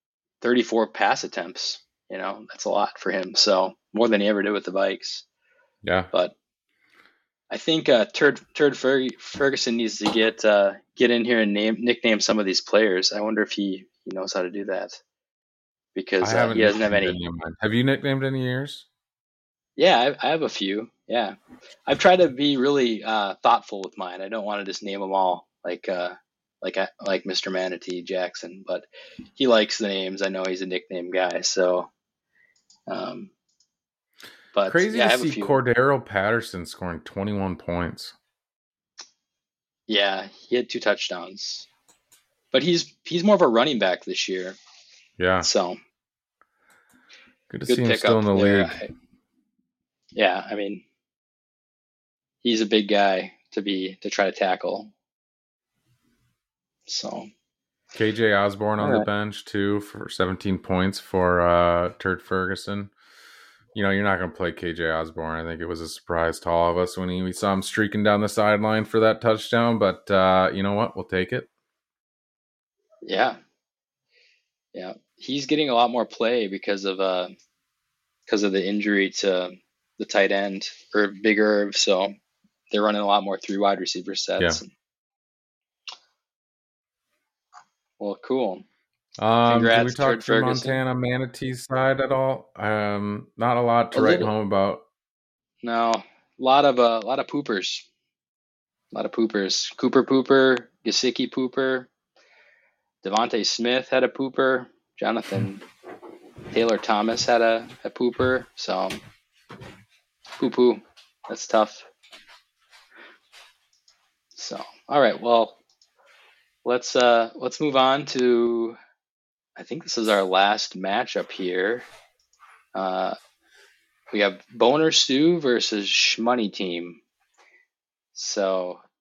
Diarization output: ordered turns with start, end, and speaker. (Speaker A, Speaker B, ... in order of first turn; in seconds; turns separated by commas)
Speaker A: 0.4-5.2, Speaker B: 5.8-6.1, Speaker A: 7.5-15.0, Speaker A: 15.9-17.2, Speaker B: 16.2-18.9, Speaker A: 19.8-31.9, Speaker A: 32.9-33.3, Speaker A: 34.5-35.6, Speaker B: 34.7-38.1, Speaker A: 39.9-41.7, Speaker A: 42.5-44.6, Speaker B: 45.2-45.5, Speaker A: 45.4-45.8, Speaker B: 47.5-48.8, Speaker A: 47.7-48.9, Speaker A: 50.1-50.8, Speaker A: 52.4-54.9, Speaker A: 56.9-57.3, Speaker B: 57.9-62.9, Speaker A: 58.8-59.1, Speaker B: 63.7-71.5, Speaker A: 73.0-73.4, Speaker A: 74.7-77.3, Speaker A: 78.3-82.1, Speaker A: 82.7-84.7, Speaker A: 88.0-88.6, Speaker B: 89.2-94.8, Speaker A: 89.5-90.8, Speaker A: 93.9-94.3, Speaker A: 95.6-97.9, Speaker A: 98.9-101.9, Speaker A: 103.0-105.6, Speaker A: 106.5-109.0, Speaker A: 110.4-111.9, Speaker A: 114.3-115.6, Speaker A: 116.6-118.8, Speaker A: 119.6-121.9, Speaker A: 122.7-123.2, Speaker A: 124.1-127.0, Speaker A: 128.1-128.8